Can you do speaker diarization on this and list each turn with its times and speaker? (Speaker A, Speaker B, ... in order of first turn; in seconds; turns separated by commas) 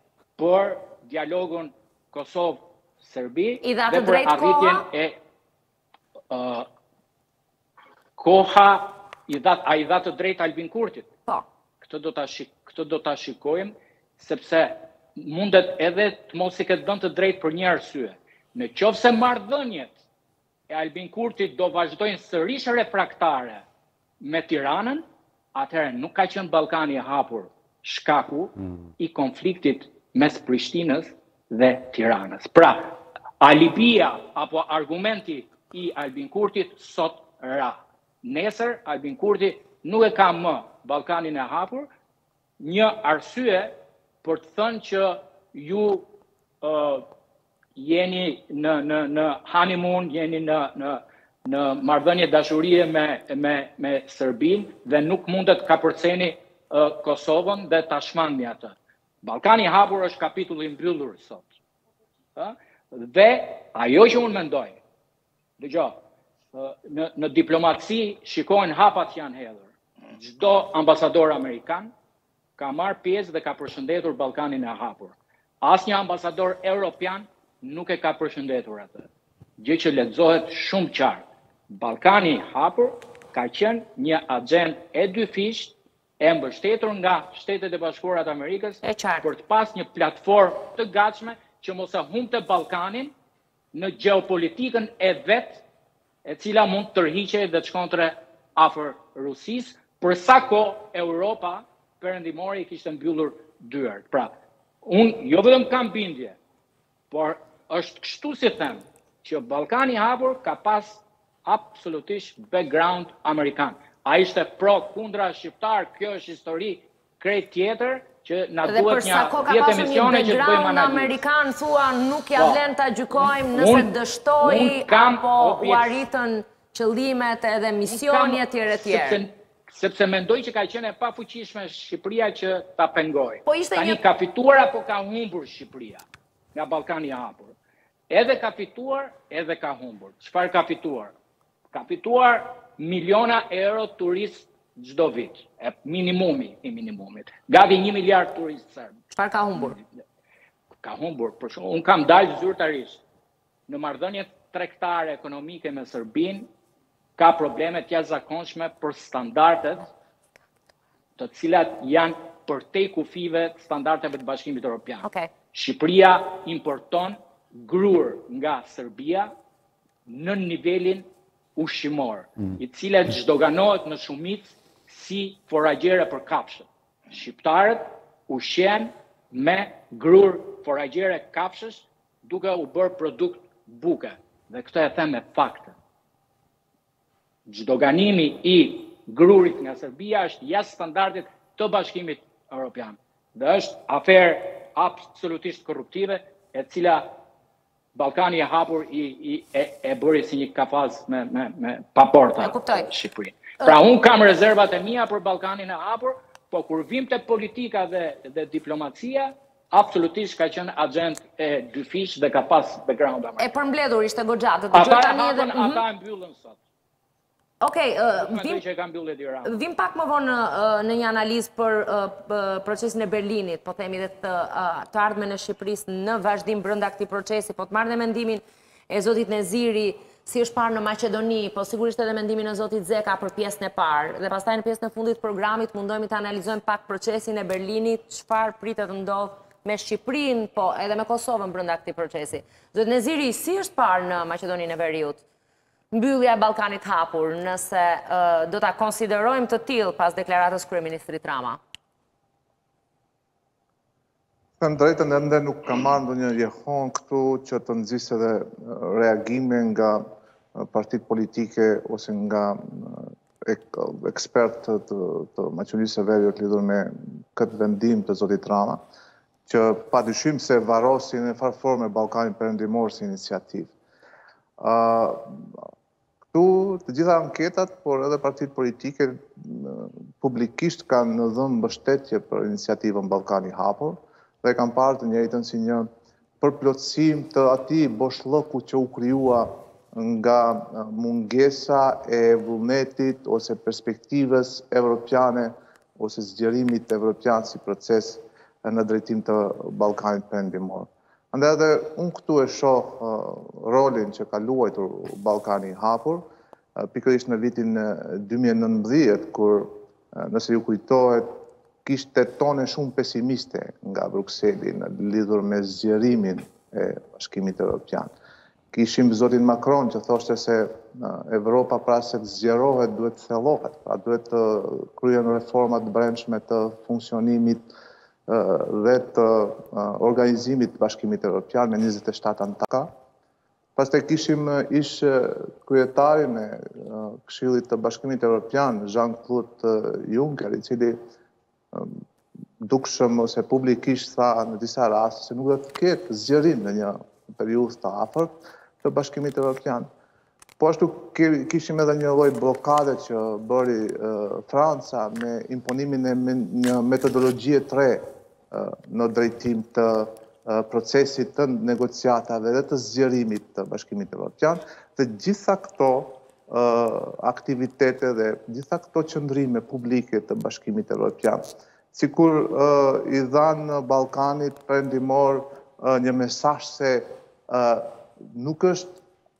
Speaker A: 0.4-5.2, Speaker B: 3.6-4.8, Speaker A: 6.3-6.7, Speaker A: 8.2-11.1, Speaker A: 11.8-19.9, Speaker A: 20.7-23.6, Speaker A: 24.2-41.9, Speaker A: 42.6-46.1, Speaker A: 46.6-47.0, Speaker A: 47.8-61.4, Speaker A: 62.4-64.8, Speaker A: 65.6-65.9, Speaker A: 66.5-71.9, Speaker A: 72.6-79.1, Speaker A: 79.6-93.1, Speaker B: 88.8-89.3, Speaker A: 93.7-95.6, Speaker A: 96.2-104.3, Speaker A: 104.8-106.4, Speaker A: 107.1-121.2, Speaker B: 118.6-129.2, Speaker A: 123.2-126.0, Speaker A: 127.8-137.5, Speaker B: 133.4-134.0, Speaker A: 138.1-141.1, Speaker A: 141.7-149.0, Speaker B: 149.1-149.8, Speaker A: 149.6-149.8, Speaker A: 150.8-153.0, Speaker A: 153.7-156.5, Speaker A: 157.2-159.9, Speaker A: 161.2-169.3, Speaker B: 165.0-165.3, Speaker A: 170.1-171.0, Speaker A: 171.6-185.7, Speaker A: 187.5-197.1, Speaker A: 197.9-213.5, Speaker B: 202.4-202.9, Speaker B: 213.4-215.8, Speaker A: 214.7-216.6, Speaker B: 217.6-218.6, Speaker A: 218.2-219.6, Speaker B: 219.4-245.2, Speaker B: 245.9-251.6, Speaker C: 254.6-268.8, Speaker C: 269.5-273.7, Speaker C: 274.6-275.6, Speaker C: 276.3-285.9, Speaker C: 286.4-306.2, Speaker C: 306.8-318.1, Speaker C: 318.7-327.7, Speaker C: 328.3-332.9, Speaker C: 333.8-341.0, Speaker C: 342.6-349.9, Speaker C: 350.6-379.0